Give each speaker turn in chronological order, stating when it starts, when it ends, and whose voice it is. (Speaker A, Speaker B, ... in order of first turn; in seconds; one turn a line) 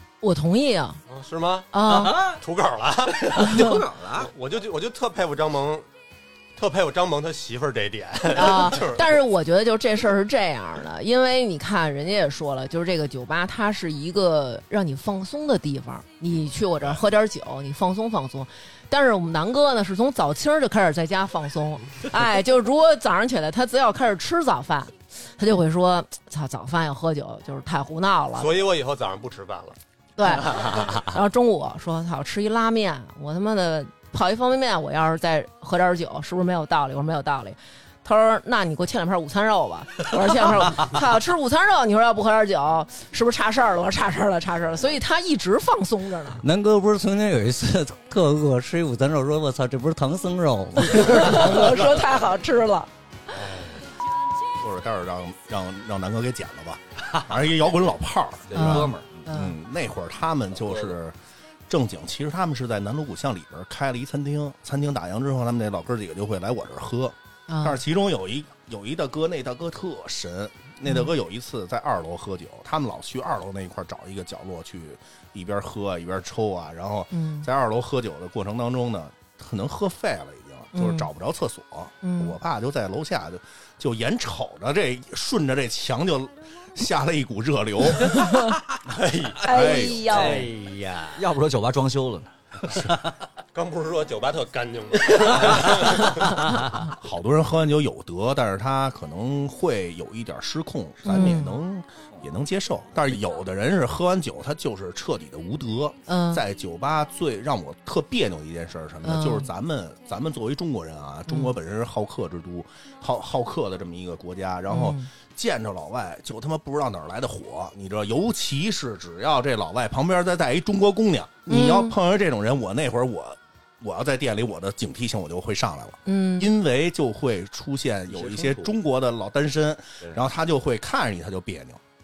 Speaker A: 0.2-1.0
Speaker B: 1.1-5.9
Speaker A: 1.7-2.2
Speaker C: 1.9-2.4
Speaker C: 3.2-4.3
Speaker A: 3.4-3.7
Speaker B: 6.5-9.2
Speaker A: 8.3-28.5
Speaker B: 28.4-29.8
Speaker A: 30.2-46.4
Speaker D: 30.6-31.0
Speaker D: 46.4-52.0
Speaker A: 50.8-52.9
Speaker C: 53.4-53.7
Speaker E: 54.5-61.1
Speaker C: 58.5-59.3
Speaker A: 58.5-59.5
Speaker C: 60.6-60.9
Speaker E: 61.7-88.2
Speaker A: 67.5-67.8
Speaker A: 77.1-77.5
Speaker A: 80.7-81.1
Speaker A: 82.0-82.3
Speaker A: 88.0-88.5
Speaker B: 88.8-89.4
Speaker A: 89.4-90.4
Speaker E: 89.5-90.2
Speaker C: 89.6-92.9
Speaker D: 90.2-91.2
Speaker B: 93.5-96.4
Speaker E: 97.0-131.8
Speaker A: 101.0-101.6
Speaker A: 106.1-106.4
Speaker A: 109.0-109.5
Speaker A: 111.3-111.5
Speaker A: 114.7-115.1
Speaker A: 121.5-121.9
Speaker A: 126.0-126.5
Speaker C: 128.1-128.7